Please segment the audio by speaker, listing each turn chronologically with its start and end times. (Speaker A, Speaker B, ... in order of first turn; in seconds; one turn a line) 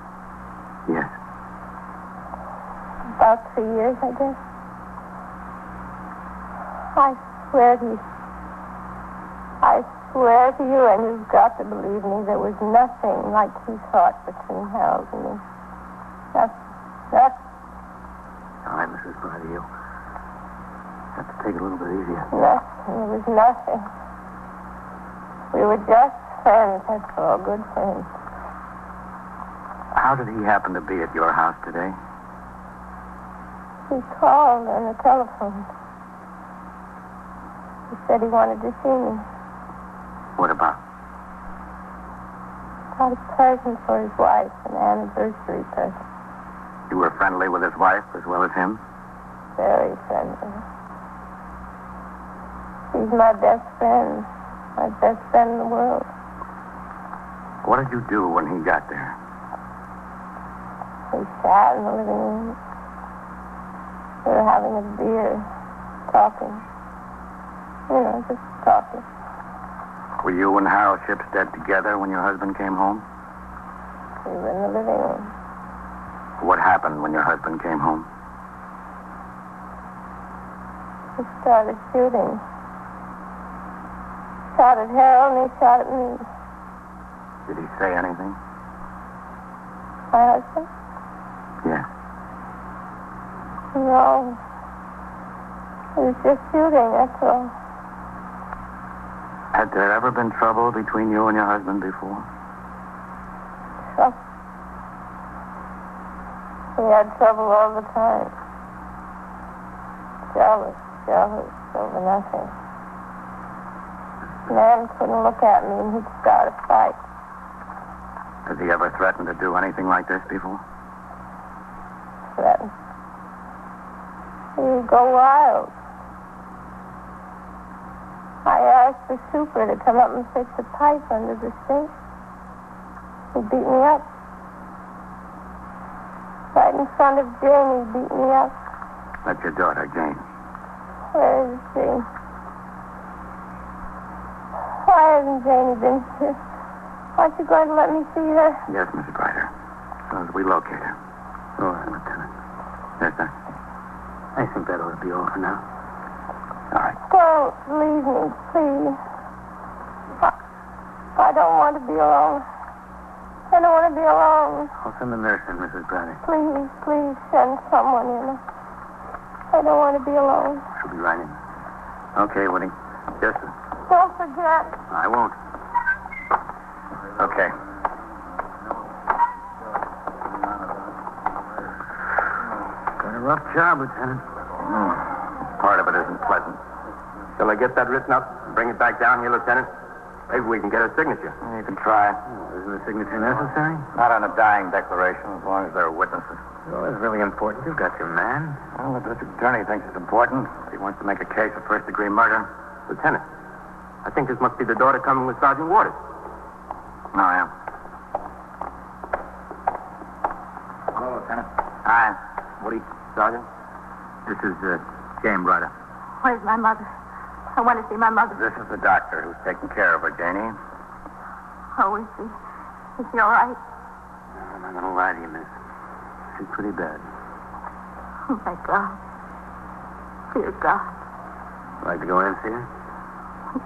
Speaker A: 0.9-1.1
Speaker B: 3.2-4.4
Speaker B: 6.9-8.0
Speaker B: 9.6-15.4
Speaker B: 17.1-17.4
Speaker C: 18.6-19.7
Speaker C: 21.2-22.3
Speaker B: 22.3-23.9
Speaker B: 25.5-28.1
Speaker A: 29.9-32.0
Speaker B: 33.9-35.7
Speaker B: 37.9-39.2
Speaker A: 40.4-40.8
Speaker B: 43.0-46.0
Speaker A: 46.9-48.8
Speaker B: 49.6-50.6
Speaker B: 52.9-56.1
Speaker A: 57.6-59.2
Speaker B: 61.1-62.6
Speaker B: 64.2-65.5
Speaker B: 66.1-66.6
Speaker B: 67.9-69.0
Speaker A: 70.2-73.0
Speaker B: 74.2-75.3
Speaker A: 76.4-78.1
Speaker B: 81.2-82.4
Speaker B: 84.5-86.3
Speaker A: 87.5-88.4
Speaker B: 90.1-90.7
Speaker B: 93.7-94.4
Speaker B: 96.0-97.5
Speaker A: 99.5-102.3
Speaker B: 106.8-108.3
Speaker B: 110.3-112.5
Speaker B: 114.5-117.0
Speaker A: 118.5-120.6
Speaker B: 122.3-122.7
Speaker B: 124.6-125.7
Speaker B: 128.4-131.9
Speaker B: 133.3-134.1
Speaker B: 136.5-138.5
Speaker A: 139.2-140.2
Speaker B: 141.1-142.1
Speaker B: 144.8-146.4
Speaker B: 147.2-148.6
Speaker A: 148.7-149.5
Speaker A: 150.1-151.0
Speaker C: 151.6-152.3
Speaker A: 153.0-153.3
Speaker C: 154.3-155.6
Speaker B: 157.1-159.0
Speaker B: 161.2-162.4
Speaker B: 163.5-164.7
Speaker C: 164.8-166.2
Speaker B: 166.2-168.4
Speaker B: 169.5-170.6
Speaker C: 170.8-171.4
Speaker A: 172.2-172.7
Speaker C: 173.2-173.5
Speaker B: 173.9-174.8
Speaker C: 174.9-175.4
Speaker A: 177.2-177.5
Speaker C: 183.0-184.2
Speaker A: 185.6-186.6
Speaker D: 187.4-189.7
Speaker D: 190.3-191.4
Speaker A: 191.4-192.2
Speaker C: 192.3-193.9
Speaker A: 193.9-196.4
Speaker C: 196.7-198.6
Speaker A: 198.8-202.5
Speaker D: 202.9-203.2
Speaker D: 204.0-206.0
Speaker A: 207.1-207.5
Speaker E: 210.9-211.5
Speaker A: 211.9-212.2
Speaker D: 213.2-213.4
Speaker E: 214.3-215.7
Speaker F: 216.2-216.9
Speaker F: 217.5-218.4
Speaker A: 218.3-220.6
Speaker F: 221.8-222.3
Speaker F: 223.0-223.6
Speaker C: 224.4-225.5
Speaker C: 226.4-227.0
Speaker F: 228.3-229.0
Speaker F: 230.3-230.9
Speaker C: 231.8-232.7